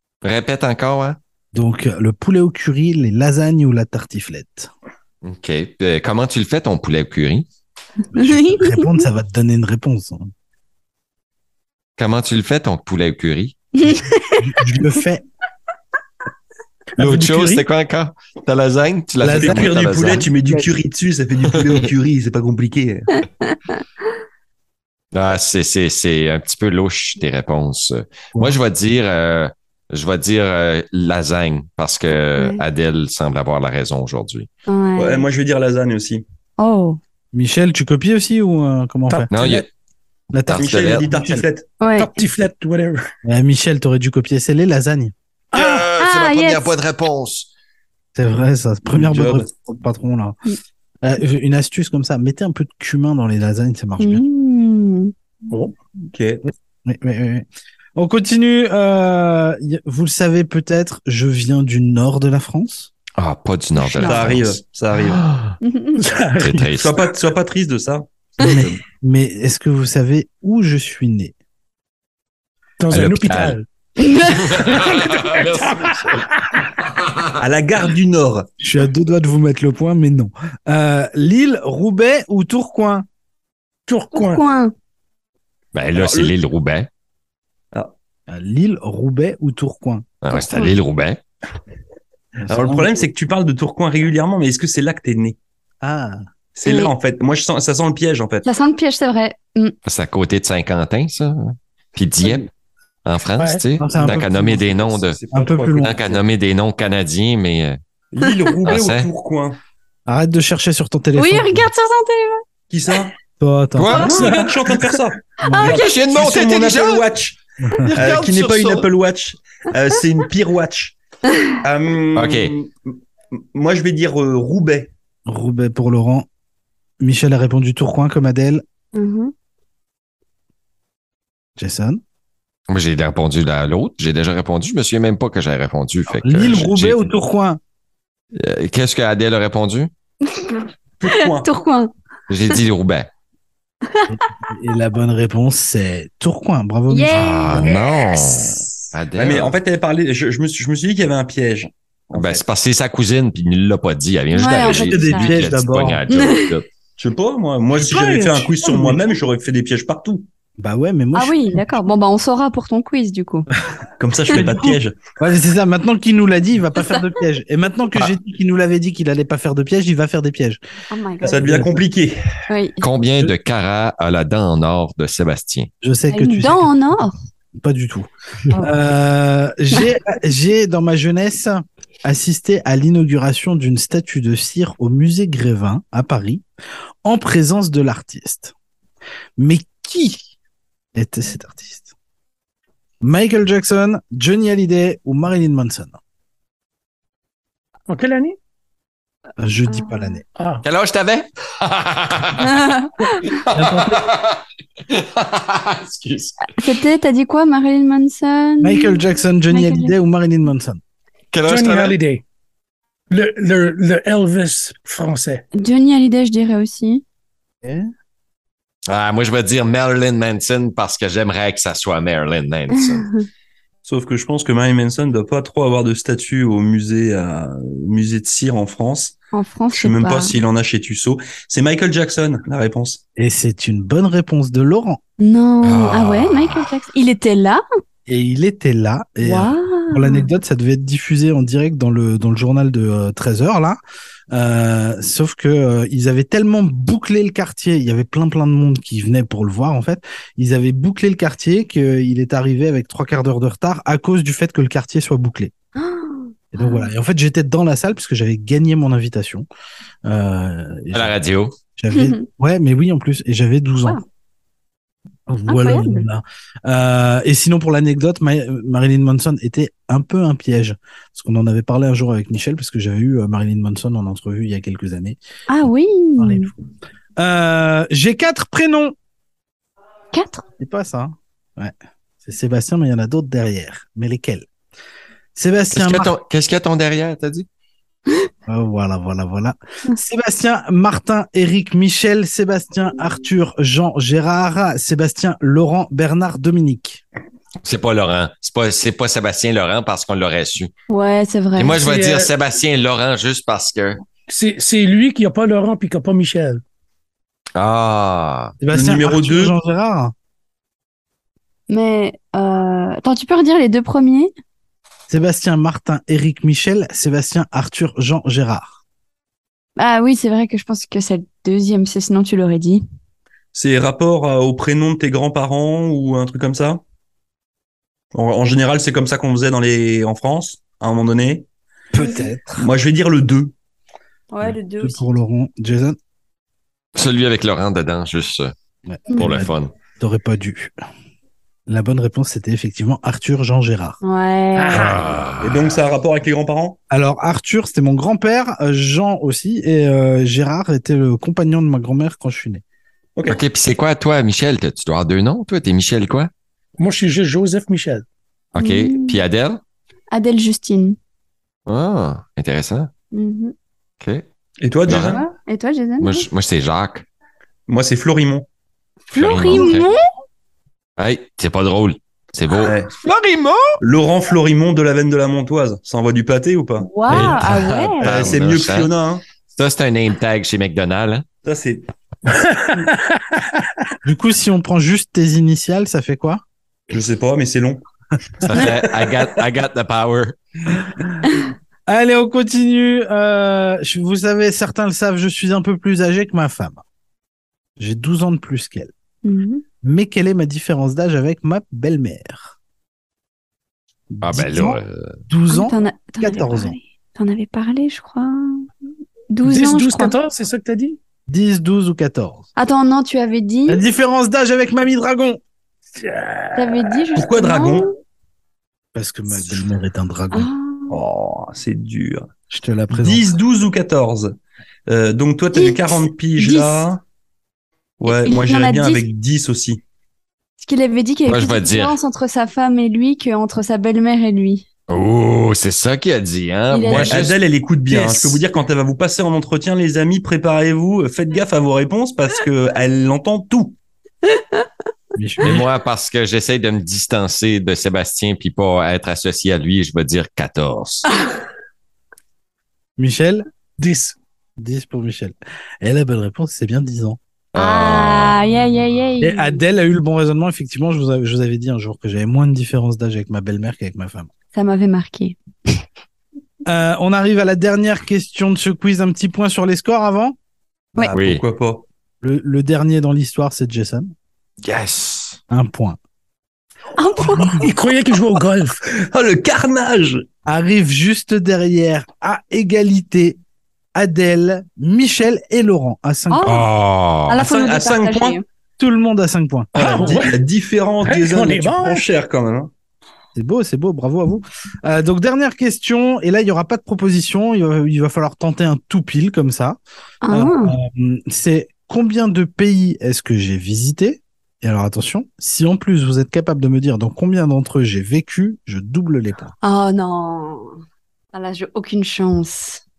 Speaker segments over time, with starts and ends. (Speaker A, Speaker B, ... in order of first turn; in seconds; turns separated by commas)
Speaker A: 0.2-1.2, Speaker B: 1.5-4.7, Speaker A: 5.2-7.5, Speaker C: 8.1-9.0, Speaker B: 8.1-10.3, Speaker A: 12.0-13.6, Speaker C: 13.8-14.4, Speaker B: 14.4-15.2, Speaker D: 17.0-17.6, Speaker A: 17.0-20.3, Speaker B: 19.2-20.7, Speaker E: 19.4-23.1, Speaker A: 21.6-21.8, Speaker C: 23.1-23.8, Speaker A: 25.1-34.5, Speaker C: 32.4-32.6, Speaker C: 34.7-35.3, Speaker E: 35.0-36.2, Speaker C: 36.6-37.0, Speaker B: 37.3-39.5, Speaker D: 39.1-39.6, Speaker A: 39.3-39.7, Speaker B: 40.3-41.5, Speaker A: 40.5-41.1, Speaker E: 40.5-41.7, Speaker C: 41.8-42.1, Speaker D: 42.0-43.0, Speaker B: 43.2-45.1, Speaker A: 45.5-47.5, Speaker D: 45.5-45.9, Speaker C: 46.0-46.7, Speaker B: 48.2-50.4, Speaker E: 48.9-49.5, Speaker B: 51.0-54.2, Speaker C: 54.0-55.1, Speaker E: 56.1-56.4, Speaker B: 56.5-62.9, Speaker A: 63.2-65.6, Speaker C: 63.8-64.4, Speaker E: 64.0-65.2, Speaker C: 65.6-66.0, Speaker D: 66.0-66.7, Speaker A: 66.4-67.1, Speaker E: 66.7-68.7, Speaker B: 68.4-71.3, Speaker D: 72.8-73.7, Speaker A: 72.9-73.6, Speaker C: 74.0-74.5, Speaker D: 74.5-76.6, Speaker A: 74.6-76.2, Speaker A: 76.8-77.4, Speaker E: 77.4-78.5, Speaker B: 78.6-83.1, Speaker D: 83.9-84.4, Speaker C: 84.1-84.7, Speaker A: 85.7-86.9, Speaker E: 85.9-86.3, Speaker B: 88.3-90.1, Speaker A: 90.2-91.2, Speaker C: 90.3-90.8, Speaker B: 92.4-92.9, Speaker E: 92.5-95.4, Speaker B: 95.8-96.2, Speaker E: 96.5-98.5, Speaker C: 96.7-96.9, Speaker C: 98.5-99.8, Speaker A: 99.9-102.5, Speaker A: 103.0-105.2, Speaker D: 103.4-103.6, Speaker B: 103.8-104.6, Speaker E: 104.0-106.2, Speaker B: 105.3-106.0, Speaker A: 105.8-107.8, Speaker E: 108.1-109.6, Speaker A: 108.7-109.1, Speaker B: 110.1-111.7, Speaker C: 111.2-112.4, Speaker E: 112.7-113.1, Speaker B: 113.4-114.3, Speaker A: 113.8-114.2, Speaker C: 113.9-114.3, Speaker E: 114.0-117.4, Speaker D: 114.1-114.5, Speaker C: 115.4-116.0, Speaker B: 115.4-115.8, Speaker A: 115.6-117.0, Speaker B: 117.7-118.9, Speaker E: 117.9-121.0, Speaker E: 121.6-124.9, Speaker A: 122.2-122.5, Speaker B: 125.3-126.3, Speaker B: 127.0-128.6, Speaker C: 128.9-129.3, Speaker B: 131.6-132.0, Speaker A: 132.7-137.1, Speaker B: 136.1-137.6, Speaker A: 138.4-139.9, Speaker C: 140.3-141.9, Speaker E: 141.0-141.5, Speaker A: 142.3-143.1, Speaker B: 144.1-147.7, Speaker C: 146.9-148.2, Speaker A: 147.1-149.6, Speaker E: 149.2-152.4, Speaker A: 152.2-156.7, Speaker C: 154.3-155.4, Speaker B: 154.7-156.0, Speaker C: 156.1-156.6, Speaker E: 157.0-160.3, Speaker D: 157.7-159.0, Speaker B: 160.6-161.6, Speaker C: 161.1-163.5, Speaker E: 164.0-165.0, Speaker B: 164.3-170.6, Speaker C: 170.9-171.5, Speaker E: 171.2-172.2, Speaker B: 171.3-171.7, Speaker C: 172.5-172.8, Speaker A: 172.8-175.7, Speaker B: 175.8-176.8, Speaker C: 176.1-177.2, Speaker B: 177.6-186.4, Speaker B: 187.1-188.5, Speaker B: 189.4-190.3, Speaker B: 190.9-191.9, Speaker B: 193.0-196.0, Speaker D: 197.9-198.4, Speaker B: 199.4-200.2, Speaker C: 199.7-200.2, Speaker D: 200.4-200.6, Speaker A: 200.6-202.5, Speaker C: 202.4-203.4, Speaker A: 203.3-206.4, Speaker B: 203.4-204.1, Speaker C: 206.4-210.0, Speaker B: 208.6-210.8, Speaker A: 211.3-212.0, Speaker D: 211.4-212.2, Speaker D: 213.1-215.4, Speaker C: 215.5-217.0, Speaker B: 217.6-217.9, Speaker A: 218.9-223.1, Speaker C: 222.8-223.3, Speaker E: 223.8-229.2, Speaker C: 229.3-230.4, Speaker E: 229.7-233.0, Speaker B: 233.2-235.0, Speaker C: 235.2-237.6, Speaker A: 235.6-236.7, Speaker B: 238.1-243.8, Speaker C: 239.2-240.3, Speaker B: 244.3-255.5, Speaker C: 255.8-256.9, Speaker B: 256.5-259.5, Speaker B: 260.1-261.2, Speaker A: 260.9-261.6, Speaker B: 261.8-264.0, Speaker C: 261.9-262.3, Speaker B: 265.3-275.2, Speaker C: 265.5-266.1, Speaker C: 275.5-276.5, Speaker B: 276.2-276.5, Speaker B: 277.2-278.9, Speaker C: 280.1-280.4, Speaker B: 280.6-284.5, Speaker B: 285.4-286.2, Speaker A: 285.7-287.5, Speaker B: 288.5-297.0, Speaker A: 297.6-300.7, Speaker C: 300.9-301.8, Speaker A: 301.6-304.0, Speaker D: 301.8-302.3, Speaker D: 304.3-306.6, Speaker A: 307.6-308.5, Speaker B: 308.6-310.1, Speaker E: 308.7-309.6, Speaker C: 311.7-314.3, Speaker B: 315.1-318.8, Speaker C: 319.8-322.8, Speaker E: 323.5-326.8, Speaker E: 328.1-331.5, Speaker B: 331.9-332.7, Speaker E: 332.6-333.5, Speaker C: 334.3-335.0, Speaker B: 334.4-336.0, Speaker A: 337.0-338.5, Speaker B: 338.9-340.7, Speaker A: 339.2-339.7, Speaker B: 341.7-344.0, Speaker C: 344.0-345.1, Speaker D: 344.6-345.0, Speaker A: 344.7-345.7, Speaker E: 345.4-346.8, Speaker B: 346.9-352.6, Speaker E: 353.2-353.4, Speaker A: 353.3-356.3, Speaker D: 356.8-358.1, Speaker A: 358.5-359.6, Speaker C: 358.6-359.2, Speaker C: 360.1-361.0, Speaker A: 361.7-362.9, Speaker C: 363.1-363.5, Speaker E: 364.6-365.2, Speaker A: 364.9-365.2, Speaker C: 364.9-366.3, Speaker A: 366.0-367.1, Speaker E: 367.7-368.5, Speaker A: 369.1-369.9, Speaker C: 369.1-370.0, Speaker A: 371.0-373.6, Speaker E: 372.5-372.9, Speaker E: 373.8-377.4, Speaker C: 376.8-378.1, Speaker A: 377.1-378.9, Speaker E: 378.0-379.2, Speaker A: 379.5-381.2, Speaker E: 381.4-381.9, Speaker D: 382.5-383.6, Speaker B: 384.0-386.4, Speaker E: 386.9-387.8, Speaker E: 388.4-389.1, Speaker A: 388.4-390.4, Speaker B: 390.7-391.1, Speaker B: 391.9-396.8, Speaker B: 397.8-398.9, Speaker C: 399.2-399.6, Speaker B: 399.8-402.6, Speaker B: 404.1-406.8, Speaker A: 404.2-405.2, Speaker C: 405.5-408.7, Speaker C: 409.3-410.2, Speaker D: 409.4-411.0, Speaker B: 411.3-412.5, Speaker C: 412.6-413.8, Speaker B: 413.7-415.4, Speaker D: 415.9-417.1, Speaker C: 416.5-417.9, Speaker E: 417.2-417.9, Speaker B: 418.9-420.5, Speaker C: 420.3-421.0, Speaker E: 420.9-422.3, Speaker B: 422.5-423.3, Speaker E: 422.9-427.0, Speaker C: 425.5-426.9, Speaker E: 428.0-429.8, Speaker C: 428.1-429.1, Speaker C: 430.6-434.7, Speaker A: 431.3-432.0, Speaker A: 434.9-437.4, Speaker C: 436.7-437.2, Speaker E: 436.9-443.8, Speaker B: 445.1-445.6, Speaker A: 445.4-451.1, Speaker B: 453.0-453.5, Speaker D: 453.8-454.2, Speaker B: 454.6-457.2, Speaker A: 457.5-458.4, Speaker C: 457.6-459.6, Speaker B: 459.2-464.3, Speaker C: 464.5-465.4, Speaker B: 466.7-470.4, Speaker E: 471.0-471.9, Speaker A: 471.1-471.4, Speaker B: 472.2-474.1, Speaker A: 474.6-475.4, Speaker B: 475.5-476.0, Speaker C: 477.0-477.7, Speaker D: 477.5-478.8, Speaker E: 478.9-480.2, Speaker B: 480.5-483.4, Speaker B: 483.9-486.6, Speaker C: 486.3-486.7, Speaker A: 486.4-487.4, Speaker C: 487.3-488.4, Speaker E: 487.4-488.4, Speaker B: 488.8-490.3, Speaker E: 489.8-492.7, Speaker D: 489.8-490.4, Speaker D: 491.0-492.0, Speaker B: 493.4-499.8, Speaker C: 500.2-500.8, Speaker B: 500.3-509.5, Speaker C: 509.6-510.8, Speaker C: 511.3-512.8